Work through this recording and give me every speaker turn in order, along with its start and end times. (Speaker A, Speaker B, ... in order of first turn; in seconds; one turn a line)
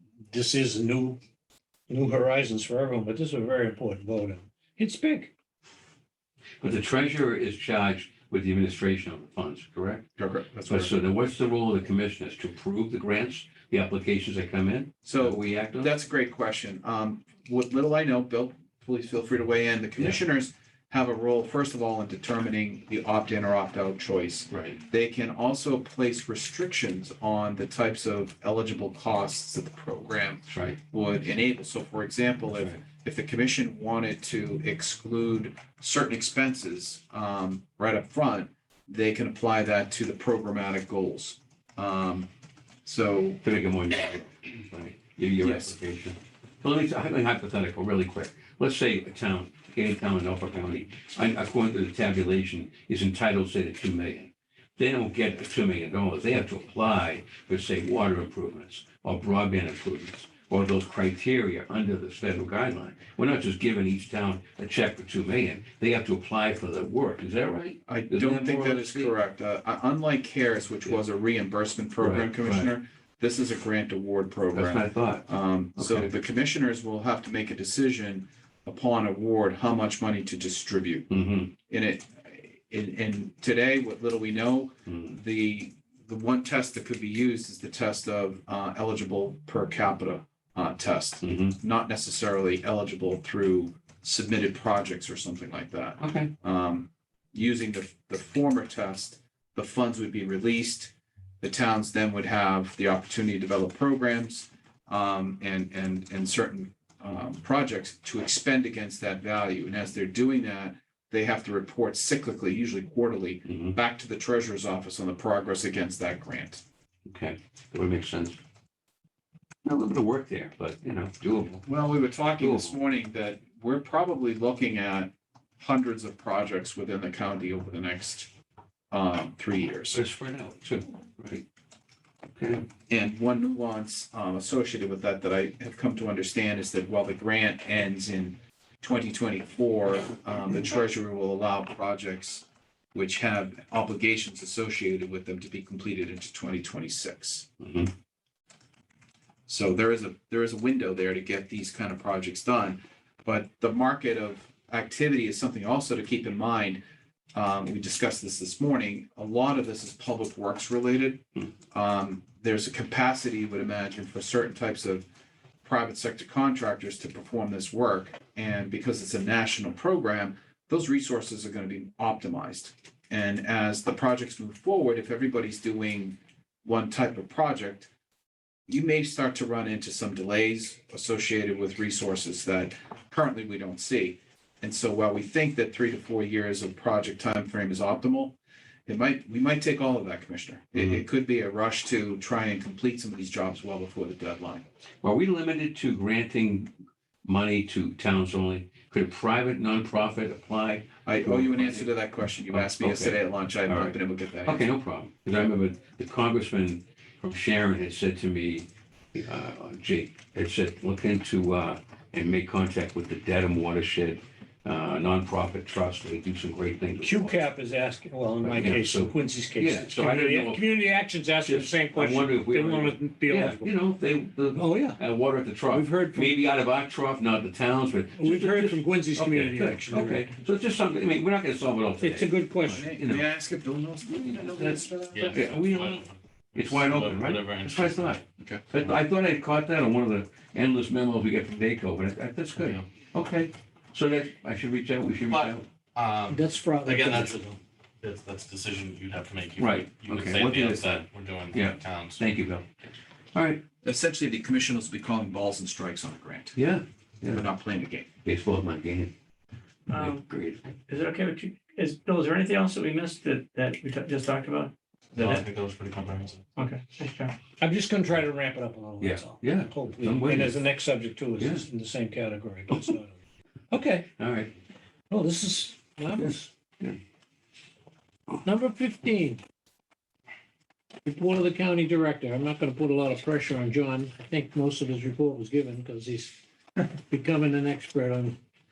Speaker A: 0.3-1.2
Speaker A: 1.9-5.3
Speaker B: 6.6-10.1
Speaker C: 10.2-10.9
Speaker B: 10.7-15.9
Speaker C: 15.0-42.3
Speaker B: 24.5-24.8
Speaker B: 30.5-30.8
Speaker C: 42.8-43.4
Speaker B: 43.4-69.1
Speaker C: 45.4-45.8
Speaker C: 67.9-81.1
Speaker B: 72.0-72.7
Speaker B: 74.5-76.1
Speaker B: 81.1-81.5
Speaker C: 81.7-116.6
Speaker B: 84.9-85.2
Speaker B: 91.2-91.5
Speaker B: 96.0-96.3
Speaker B: 113.5-113.7
Speaker B: 117.1-118.4
Speaker B: 119.6-121.7
Speaker C: 121.7-128.3
Speaker B: 122.4-122.8
Speaker C: 128.9-130.0
Speaker B: 129.9-131.4
Speaker B: 132.3-132.6
Speaker C: 132.9-147.5
Speaker B: 147.6-147.9
Speaker C: 149.5-156.8
Speaker C: 157.3-165.1
Speaker C: 165.6-177.9
Speaker C: 178.7-188.3
Speaker C: 188.9-194.6
Speaker B: 190.7-191.0
Speaker B: 195.0-196.7
Speaker B: 197.2-201.9
Speaker C: 201.0-204.7
Speaker B: 202.5-217.4
Speaker A: 217.0-223.7
Speaker B: 218.4-220.7
Speaker B: 221.4-233.3
Speaker A: 224.5-225.0
Speaker A: 225.7-226.5
Speaker A: 228.1-230.3
Speaker A: 232.0-232.8
Speaker C: 232.7-235.5
Speaker B: 234.0-245.7
Speaker D: 235.1-238.2
Speaker D: 242.5-242.9
Speaker D: 245.3-252.3
Speaker A: 246.3-247.6
Speaker B: 249.6-252.7
Speaker B: 253.3-253.6
Speaker C: 253.8-256.6
Speaker B: 256.6-257.5
Speaker C: 257.3-258.1
Speaker B: 258.2-259.1
Speaker E: 259.9-260.2
Speaker B: 259.9-260.6
Speaker E: 260.9-265.4
Speaker D: 265.1-266.5
Speaker E: 266.6-267.3
Speaker A: 267.6-273.2
Speaker B: 269.0-270.6
Speaker B: 271.4-271.6
Speaker B: 273.7-274.5
Speaker A: 275.1-276.5
Speaker B: 276.1-277.0
Speaker A: 278.4-279.4
Speaker A: 281.0-286.4
Speaker A: 287.1-288.4